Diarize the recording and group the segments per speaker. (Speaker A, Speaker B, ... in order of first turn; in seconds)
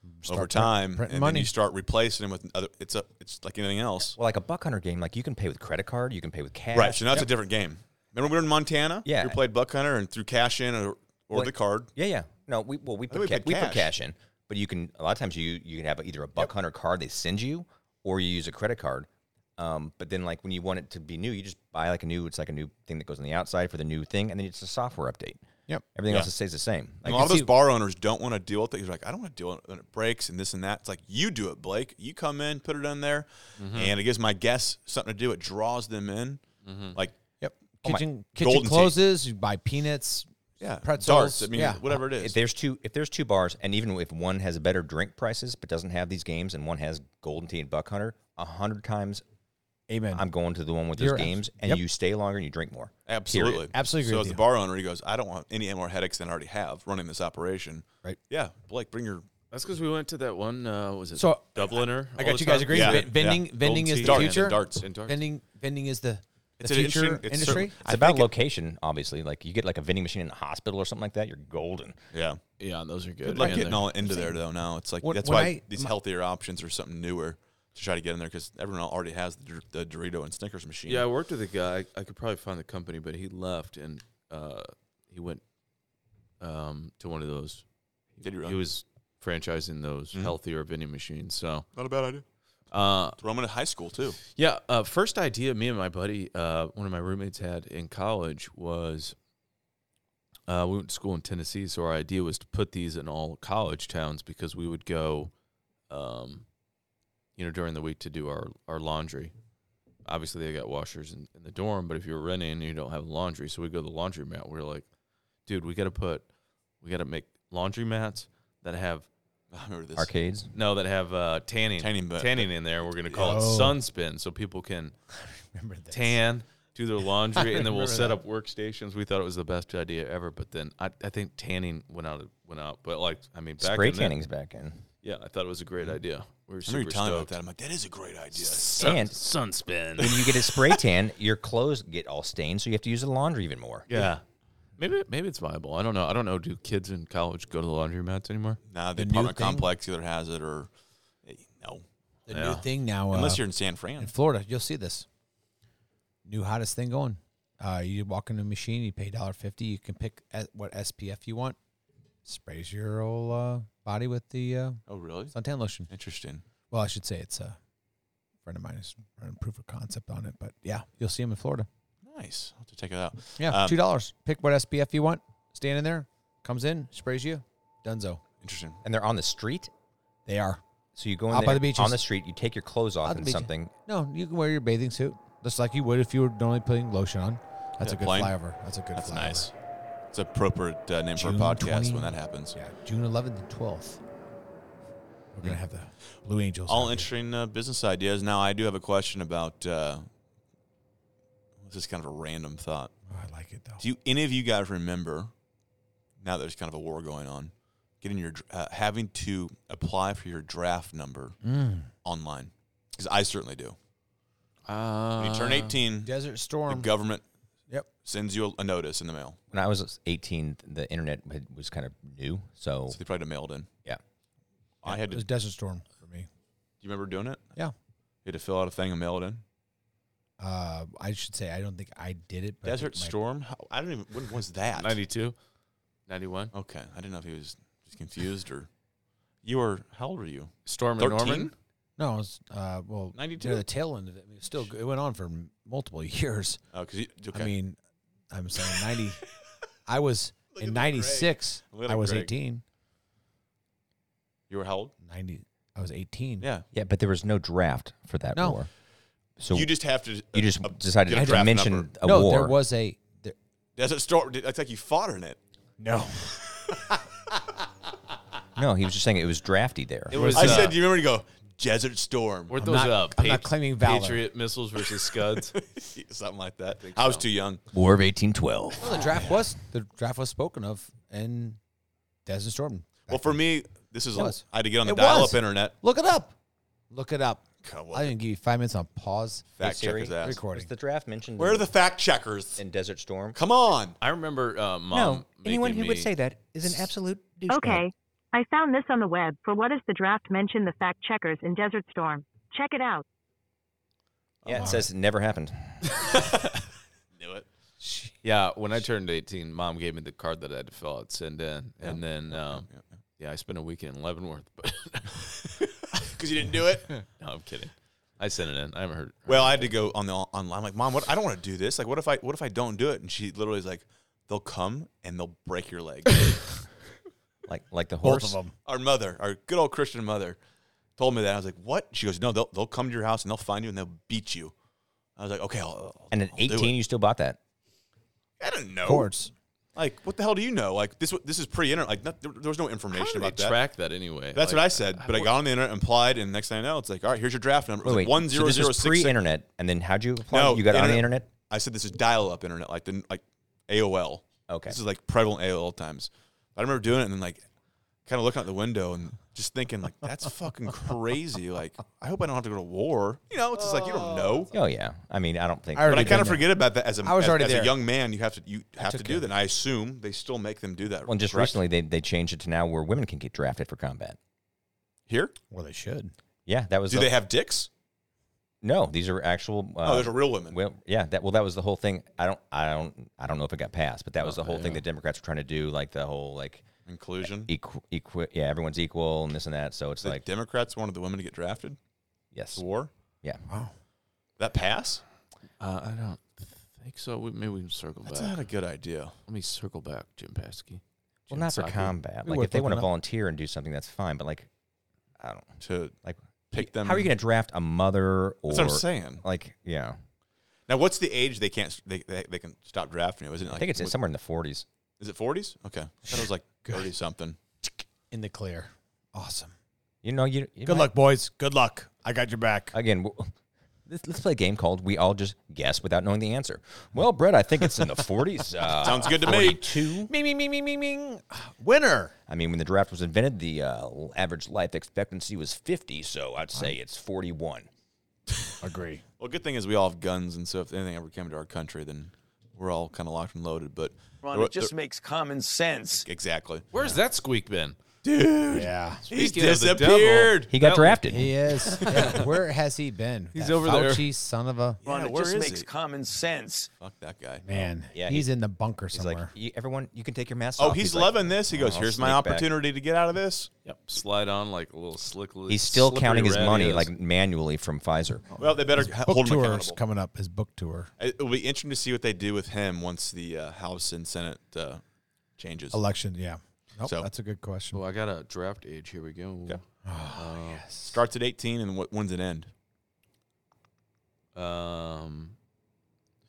Speaker A: 0.1-1.5, 27.1-27.5, 37.4-40.3, 40.8-41.8, 49.9-50.2, 51.0-51.8, 53.7-54.4, 61.2-67.8, 73.4-74.4, 75.0-75.9, 123.1-123.8, 125.3-126.2, 127.3-128.2, 149.0-149.7, 152.3-155.1, 156.2-161.6, 162.2-165.9, 166.7-167.6, 168.4-171.7, 173.4-178.2, 180.3-180.6, 181.3-182.0, 183.0-189.5, 191.2-194.0, 195.3-197.1, 203.1-203.8, 211.4-211.9, 216.0-216.9, 224.9-226.3, 230.4-233.2, 242.0-246.6, 247.3-247.8, 248.3-249.2, 249.9-252.6, 255.0-256.5, 258.3-258.6, 261.2-263.4, 265.8-266.8, 270.1-270.7, 272.6-274.2, 278.8-281.6, 282.3-283.4, 284.1-286.3, 286.9-289.5, 290.2-290.7, 304.5-304.8, 307.8-308.1, 328.0-328.5, 338.8-339.3, 363.9-364.3, 365.8-367.8, 368.8-369.3, 375.5-376.1, 393.5-393.7, 402.2-402.9, 416.1-416.9, 418.1-419.5, 420.6-422.7, 430.0-432.1, 438.6-439.0, 448.5-449.1, 451.1-454.8, 457.4-459.3, 468.4-470.9, 475.7-477.8, 479.9-481.0
Speaker B: 0.3-4.2, 6.7-11.9, 13.1-13.9, 27.1-37.2, 38.4-39.0, 40.6-42.4, 53.1-59.3, 62.7-64.9, 66.6-68.3, 72.1-72.4, 73.2-81.1, 88.2-88.6, 91.8-92.2, 93.2-94.2, 119.5-120.1, 121.8-122.5, 136.7-138.9, 148.7-150.7, 151.2-151.8, 153.1-154.1, 164.9-165.3, 165.9-166.4, 172.0-173.8, 178.4-178.8, 187.8-188.4, 188.9-189.5, 190.1-192.6, 196.7-200.1, 201.6-202.9, 203.8-205.3, 206.2-211.4, 212.0-213.8, 215.2-216.1, 216.7-217.2, 218.0-219.4, 222.9-223.7, 224.8-225.3, 226.8-227.5, 228.2-229.4, 232.6-235.0, 236.5-238.7, 239.4-241.5, 243.1-243.7, 246.7-247.5, 250.5-252.3, 254.5-254.9, 256.4-256.7, 259.5-261.9, 263.8-265.4, 270.3-272.6, 275.5-277.6, 283.1-285.8, 287.6-288.2, 289.6-290.4, 291.4-292.6, 293.3-294.0, 304.4-304.7, 307.1-307.5, 311.8-312.8, 315.9-316.9, 319.3-326.5, 328.6-330.4, 331.0-334.5, 335.2-336.8, 338.4-339.1, 339.8-343.6, 344.4-349.2, 350.3-357.5, 358.1-364.5, 365.9-371.6, 375.1-375.4, 376.9-377.7, 379.8-380.6, 386.9-387.5, 390.0-391.8, 392.6-392.9, 394.4-395.0, 398.1-399.1, 405.6-405.9, 406.5-407.1, 408.5-409.2, 410.7-413.9, 415.0-417.4, 428.7-429.6, 439.2-444.7, 446.1-446.7, 448.0-450.6, 454.9-455.7, 456.8-457.5, 460.6-463.5, 468.4-469.8, 471.0-474.8, 475.4-475.8, 480.9-482.5
Speaker C: 4.2-7.2, 9.1-9.4, 11.3-27.3, 41.9-49.2, 50.1-53.7, 67.8-72.0, 120.0-120.5, 133.6-134.8, 138.8-139.2, 140.0-143.9, 178.8-179.7, 180.9-183.7, 219.5-223.0, 256.7-258.7, 259.4-259.7, 260.3-262.6, 268.6-270.7, 277.7-279.2, 289.6-291.7, 292.6-293.4, 294.9-297.9, 304.5-305.8, 327.5-328.4, 336.1-337.4, 347.8-351.3, 354.5-354.8, 364.5-366.4, 371.1-374.2, 376.5-377.1, 378.6-386.7, 387.2-390.2, 392.3-392.6, 401.3-404.5, 405.2-410.0, 413.5-414.7, 420.0-420.9, 422.7-423.3, 423.9-430.1, 432.3-437.7, 450.5-451.4, 457.9-458.3, 458.9-462.5, 465.5-468.3
Speaker D: 33.6-33.9, 36.6-37.0, 59.5-65.2, 72.6-73.9, 80.9-85.4, 86.4-87.6, 88.2-91.7, 92.7-93.2, 94.3-99.2, 100.5-105.3, 105.9-106.5, 107.4-109.3, 110.0-114.9, 115.5-116.3, 116.8-119.1, 120.5-124.9, 125.9-134.2, 135.0-137.3, 138.3-140.8, 143.9-144.2, 144.8-148.6, 152.3-152.7, 214.7-215.8, 234.7-235.4, 236.1-236.5, 240.7-241.5, 270.1-270.8, 272.5-275.6, 276.8-277.2, 294.0-296.1, 305.9-306.4, 308.2-312.7, 313.2-315.5, 317.0-319.7, 342.9-345.4, 384.2-384.8, 395.6-398.4, 399.3-402.0, 446.7-447.8, 449.1-452.3, 453.3-454.1, 463.6-466.9, 477.7-479.6, 480.1-480.6, 484.4-485.4
Speaker E: 297.5-303.1
Speaker F: 444.2-446.1, 454.8-456.7